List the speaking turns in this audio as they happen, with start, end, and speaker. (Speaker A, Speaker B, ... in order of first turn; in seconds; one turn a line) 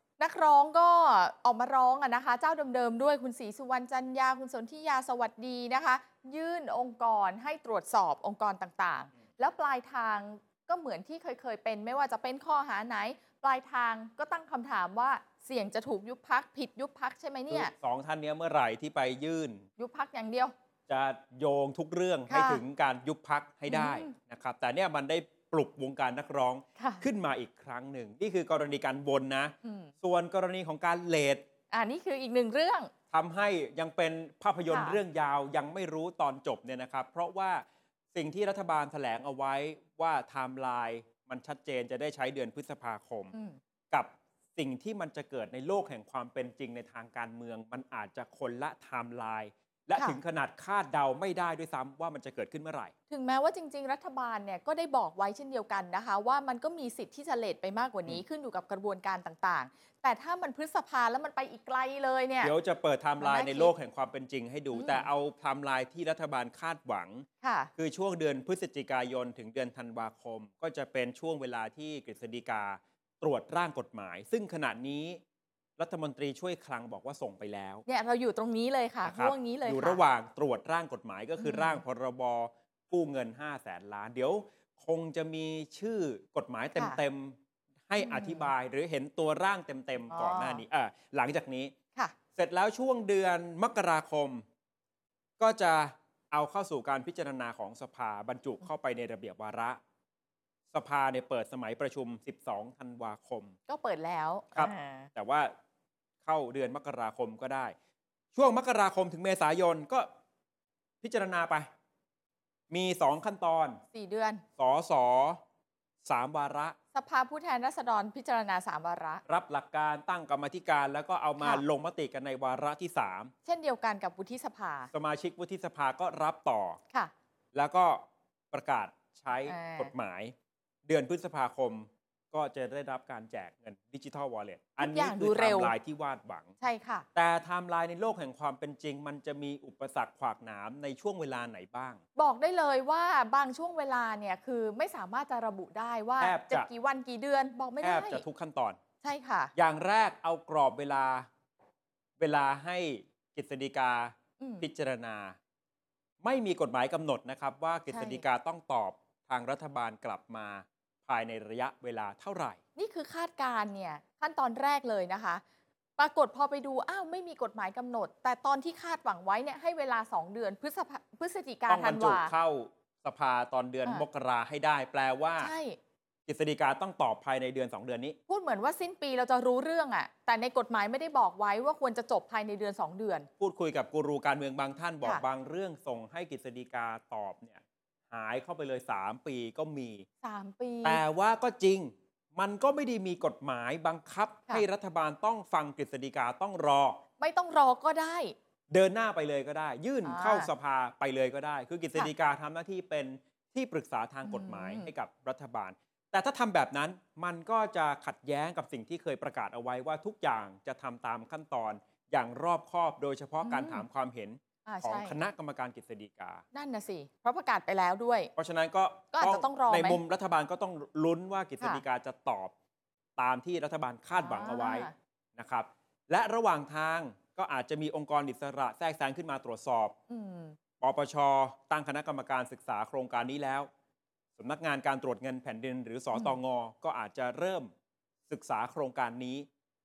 Speaker A: 0.2-17.7
Speaker B: 17.5-19.6
Speaker A: 19.8-20.5
Speaker B: 20.9-31.4
Speaker A: 22.3-22.6
Speaker A: 23.7-24.1
Speaker A: 26.8-27.0
Speaker A: 29.6-29.9
Speaker A: 31.7-32.9
Speaker B: 33.1-43.3
Speaker A: 34.7-35.0
Speaker A: 43.3-43.6
Speaker B: 43.9-52.9
Speaker A: 53.1-62.5
Speaker B: 62.4-75.2
Speaker A: 63.2-63.7
Speaker A: 64.7-65.1
Speaker A: 67.4-67.7
Speaker B: 75.8-77.8
Speaker A: 77.9-80.0
Speaker B: 79.0-87.4
Speaker A: 81.4-81.8
Speaker B: 87.9-91.7
Speaker A: 88.0-88.5
Speaker A: 90.1-90.6
Speaker B: 92.3-94.4
Speaker B: 95.4-99.8
Speaker B: 100.7-103.5
Speaker A: 103.7-105.1
Speaker B: 104.5-105.5
Speaker B: 106.2-107.7
Speaker B: 108.3-110.1
Speaker B: 111.0-111.7
Speaker B: 112.7-113.8
Speaker A: 113.9-114.4
Speaker B: 114.6-115.4
Speaker B: 116.0-116.8
Speaker A: 116.9-119.2
Speaker B: 119.2-123.3
Speaker A: 123.4-124.9
Speaker B: 124.9-126.8
Speaker B: 127.5-130.3
Speaker A: 129.4-129.9
Speaker B: 130.8-136.5
Speaker A: 134.8-135.7
Speaker A: 136.6-137.1
Speaker B: 137.1-142.0
Speaker A: 142.2-148.2
Speaker B: 146.2-146.7
Speaker B: 147.8-148.8
Speaker A: 149.0-149.5
Speaker B: 149.6-151.3
Speaker B: 152.2-155.4
Speaker A: 154.4-154.7
Speaker B: 156.2-162.6
Speaker A: 157.9-158.2
Speaker A: 162.8-165.4
Speaker A: 166.0-172.3
Speaker B: 171.7-175.5
Speaker A: 175.4-175.8
Speaker B: 176.3-178.2
Speaker A: 178.3-183.3
Speaker B: 183.4-190.1
Speaker A: 190.2-191.0
Speaker B: 190.8-197.0
Speaker A: 197.2-198.3
Speaker B: 198.7-216.4
Speaker A: 200.0-200.5
Speaker A: 204.2-204.9
Speaker A: 213.4-213.8
Speaker A: 214.7-215.2
Speaker A: 216.5-218.3
Speaker B: 218.3-222.5
Speaker A: 219.1-220.0
Speaker B: 223.2-229.9
Speaker A: 224.1-224.9
Speaker A: 230.1-230.6
Speaker B: 230.8-233.7
Speaker B: 234.4-237.7
Speaker B: 238.3-239.5